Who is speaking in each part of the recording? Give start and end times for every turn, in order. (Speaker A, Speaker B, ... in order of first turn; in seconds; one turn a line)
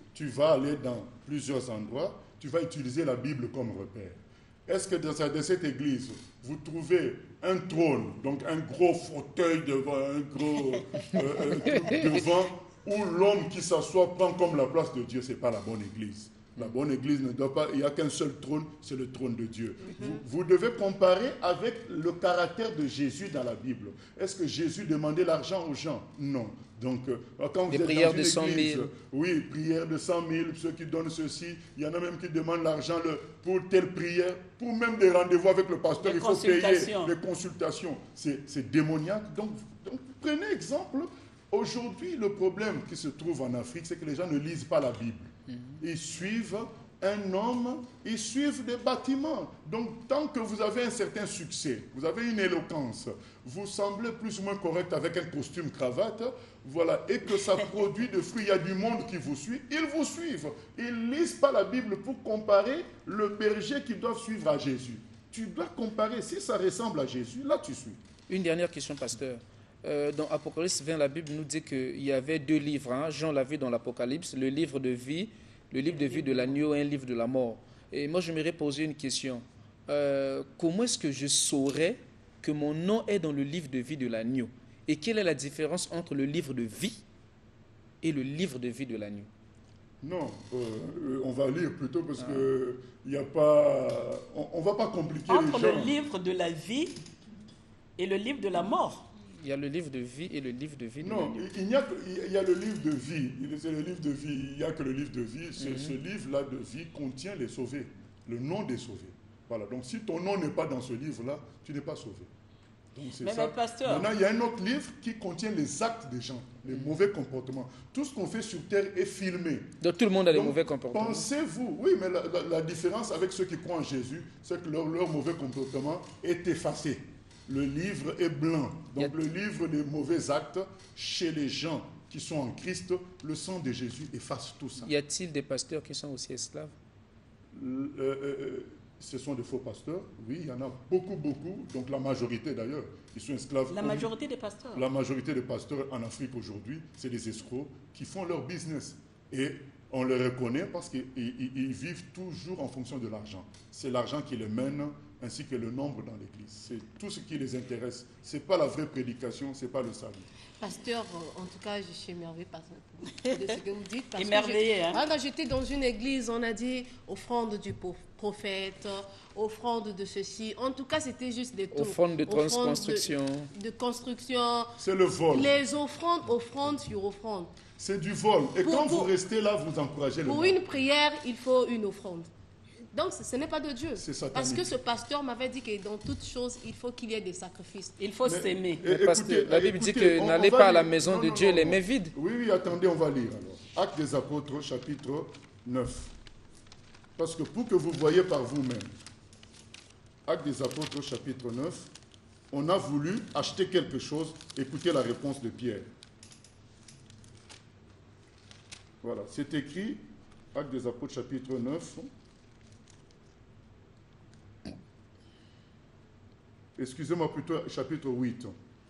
Speaker A: 0.1-68.0
Speaker B: 11.2-12.2
Speaker C: 19.9-20.2
Speaker B: 27.7-28.9
Speaker D: 36.0-37.1
Speaker B: 45.5-45.8
Speaker B: 68.3-87.0
Speaker D: 75.9-76.6
Speaker B: 88.0-89.3
Speaker A: 90.0-96.0
Speaker B: 92.2-92.5
Speaker D: 95.3-97.0
Speaker D: 98.0-99.1
Speaker B: 99.4-101.5
Speaker A: 101.0-112.3
Speaker B: 105.6-106.0
Speaker A: 113.0-119.8
Speaker D: 113.2-114.1
Speaker B: 119.8-121.3
Speaker A: 120.3-134.9
Speaker B: 134.8-136.7
Speaker A: 137.5-144.1
Speaker D: 143.7-144.8
Speaker A: 144.7-160.3
Speaker C: 160.6-174.8
Speaker D: 164.2-165.0
Speaker B: 171.7-173.5
Speaker A: 174.8-175.6
Speaker C: 175.3-177.5
Speaker A: 177.8-180.6
Speaker C: 178.6-179.1
Speaker C: 180.2-182.3
Speaker C: 182.9-188.0
Speaker A: 184.0-184.7
Speaker D: 188.0-189.2
Speaker A: 188.2-196.1
Speaker B: 189.1-192.1
Speaker A: 197.2-198.9
Speaker A: 200.3-201.9
Speaker A: 202.5-205.9
Speaker A: 209.0-212.1
Speaker A: 216.8-218.5